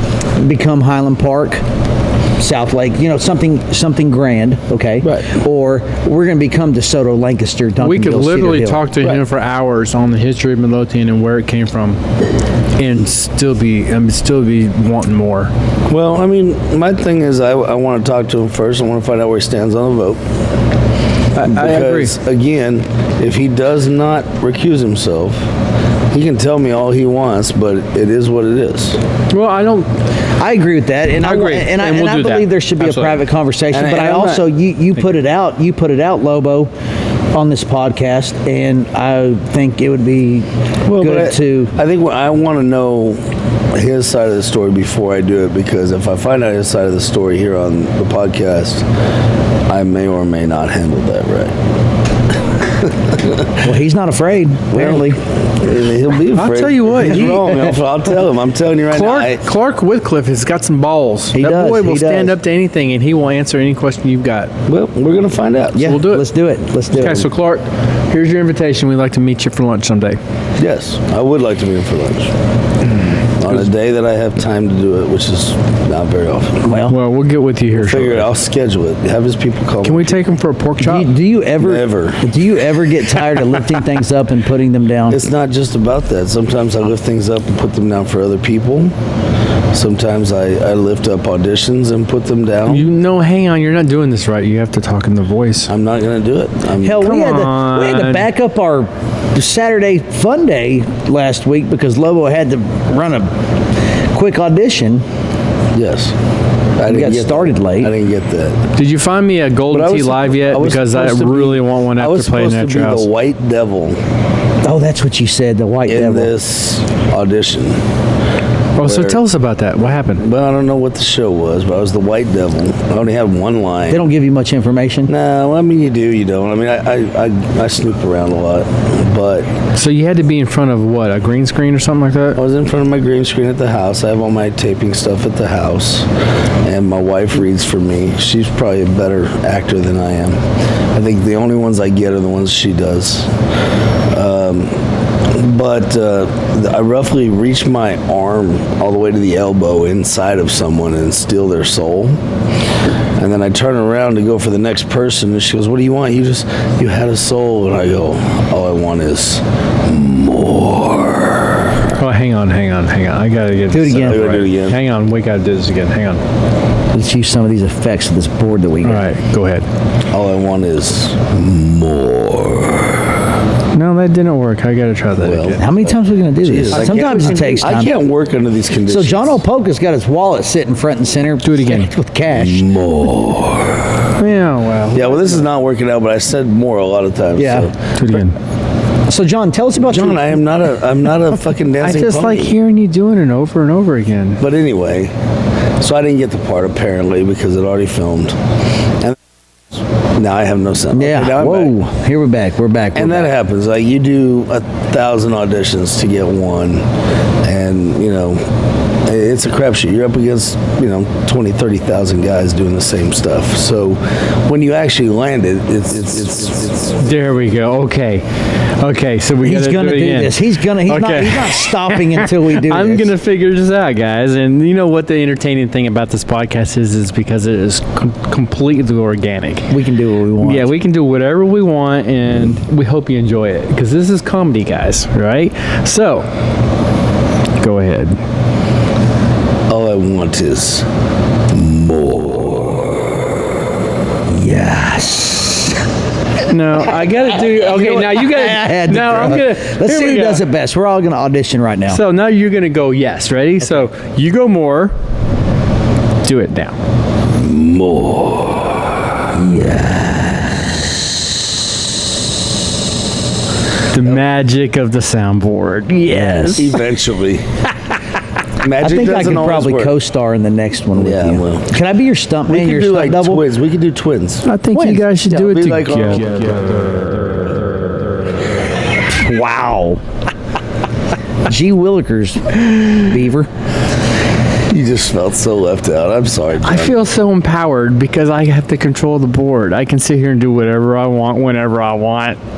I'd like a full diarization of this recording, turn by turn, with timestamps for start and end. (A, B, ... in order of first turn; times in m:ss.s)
0:00.4-0:01.6 A
0:02.4-0:08.9 A
0:05.0-0:05.3 B
0:07.8-0:12.0 C
0:12.8-0:15.5 C
0:15.9-0:20.2 B
0:21.4-0:22.2 C
0:21.4-0:25.5 B
0:26.1-0:29.0 B
0:29.3-0:29.9 C
0:30.4-0:36.7 A
0:31.2-0:33.2 C
0:33.7-0:34.5 B
0:37.3-0:41.7 A
0:40.8-0:43.2 B
0:43.7-0:48.8 B
0:49.7-0:51.6 B
0:53.1-0:53.4 B
0:53.6-0:55.2 A
0:54.7-0:59.5 B
0:56.3-0:57.7 C
0:58.9-1:04.5 C
1:01.3-1:02.4 A
1:04.7-1:06.0 B
1:05.8-1:07.3 A
1:05.8-1:06.2 C
1:06.9-1:10.2 C
1:10.6-1:12.3 B
1:13.4-1:16.8 B
1:16.6-1:17.0 A
1:16.9-1:18.3 C
1:17.7-1:20.2 B
1:19.8-1:21.2 C
1:20.8-1:25.2 A
1:21.6-1:22.3 B
1:25.1-1:28.9 B
1:29.7-1:32.9 B
1:32.7-1:35.7 C
1:35.7-1:37.1 B
1:36.8-1:43.3 A
1:37.0-1:38.3 C
1:44.1-1:45.0 A
1:45.7-1:46.2 B
1:46.8-1:48.6 B
1:46.8-1:47.9 A
1:48.8-1:53.1 C
1:49.7-1:54.0 B
1:54.6-1:56.3 A
1:55.9-1:57.8 B
1:58.8-2:00.2 C
1:58.8-1:59.2 B
2:00.2-2:04.0 B
2:03.9-2:05.1 A
2:05.1-2:09.5 B
2:09.7-2:12.4 C
2:12.4-2:16.1 B
2:16.6-2:20.4 B
2:20.9-2:23.3 B
2:24.1-2:24.8 B
2:25.3-2:32.2 B
2:33.2-2:41.8 B
2:42.0-2:46.2 C
2:43.7-2:44.4 A
2:44.0-2:44.8 B
2:46.9-2:49.1 A
2:48.8-2:49.7 C
2:50.1-2:53.0 B
2:53.7-2:55.6 C
2:55.2-2:55.8 B
2:55.6-2:57.9 A
2:56.4-2:59.4 B
2:56.7-2:57.6 C
2:58.9-3:02.7 A
3:01.4-3:01.9 C
3:02.3-3:04.0 B
3:04.2-3:05.4 C
3:04.9-3:07.8 B
3:07.4-3:07.7 A
3:08.0-3:08.4 C
3:09.1-3:10.4 A
3:09.8-3:12.6 B
3:11.8-3:14.4 C
3:14.4-3:15.1 B
3:15.8-3:18.4 B
3:19.8-3:21.7 B
3:20.9-3:23.3 A
3:23.0-3:26.8 B
3:27.4-3:28.4 B
3:29.0-3:37.0 B
3:37.0-3:38.2 C
3:38.8-3:49.7 C
3:39.4-3:43.1 A
3:49.7-3:50.8 A
3:50.4-3:56.3 C
3:57.6-3:58.2 C
3:59.7-4:00.9 B
4:01.5-4:03.0 B
4:04.3-4:05.8 A
4:06.4-4:10.4 C
4:07.3-4:12.0 A
4:11.9-4:14.9 C
4:16.2-4:16.8 C
4:17.4-4:20.4 B
4:23.9-4:26.7 C
4:26.1-4:26.6 A
4:26.1-4:27.4 B
4:28.6-4:29.9 B
4:28.8-4:33.4 A
4:31.0-4:31.7 B
4:32.5-4:34.5 B
4:34.4-4:37.0 C
4:34.7-4:35.0 A
4:35.3-4:36.8 B
4:39.0-4:40.0 A
4:41.5-4:43.5 A
4:44.7-4:47.1 B
4:46.6-4:52.4 C